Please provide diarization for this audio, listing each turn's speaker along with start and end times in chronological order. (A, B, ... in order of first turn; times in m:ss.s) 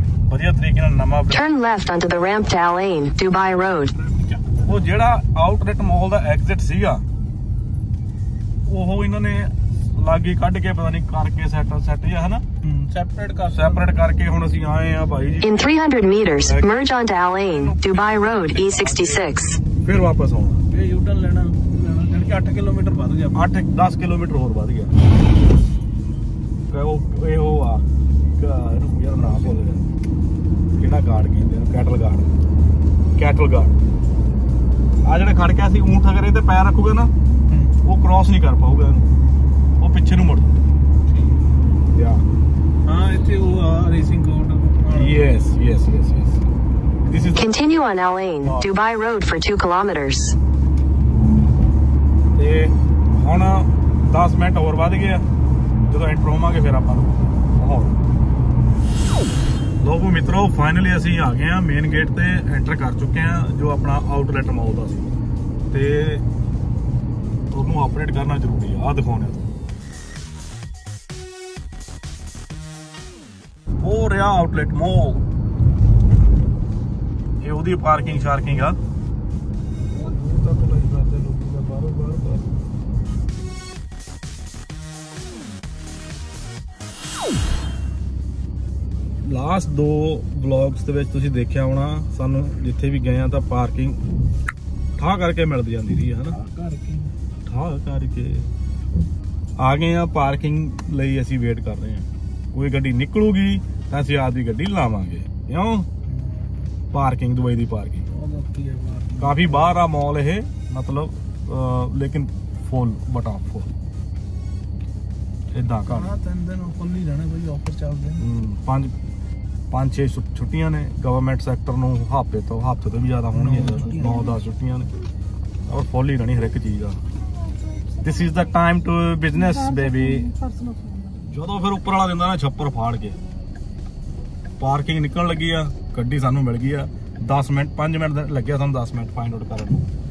0:00.3-0:01.5 A
0:01.3-0:03.9 B
0:04.0-0:04.6 C
0:04.6-0:07.0 A
0:08.7-0:12.4 A
0:12.6-0:13.9 C
0:13.5-0:15.7 A
0:15.4-0:19.6 B
0:16.3-0:16.8 A
0:17.4-0:20.6 A
0:20.7-0:23.5 C
0:23.4-0:24.9 A
0:26.7-0:27.8 A
0:28.4-0:29.9 A
0:29.2-0:29.5 C
0:30.8-0:32.3 A
0:33.2-0:33.7 A
0:35.0-0:37.1 A
0:37.5-0:37.8 C
0:37.8-0:39.1 A
0:39.8-0:40.5 A
0:41.1-0:41.4 C
0:41.9-0:42.2 A
0:42.8-0:45.3 C
0:44.9-0:46.4 A
0:47.0-0:47.6 A
0:47.4-0:50.4 B
0:48.4-0:48.7 A
0:52.4-0:55.3 A
0:55.9-0:58.0 A
0:59.8-1:05.1 A
1:05.7-1:06.2 A
1:07.5-1:09.4 A
1:13.8-1:15.2 A
1:17.4-1:18.8 A
1:19.9-1:22.5 C
1:29.2-1:34.0 A
1:35.0-1:36.4 A
1:36.2-1:37.1 C
1:37.5-1:38.5 A
1:39.6-1:45.9 A
1:46.1-1:46.7 C
1:46.9-1:48.0 A
1:48.1-1:49.8 C
1:49.2-1:53.7 A
1:55.5-1:56.1 A
1:55.9-1:58.2 C
1:58.2-1:58.9 A
1:59.7-2:04.9 A
2:03.3-2:04.2 C
2:05.7-2:07.0 A
2:08.0-2:10.4 A
2:10.4-2:10.8 C
2:11.3-2:13.2 A
2:14.6-2:19.9 A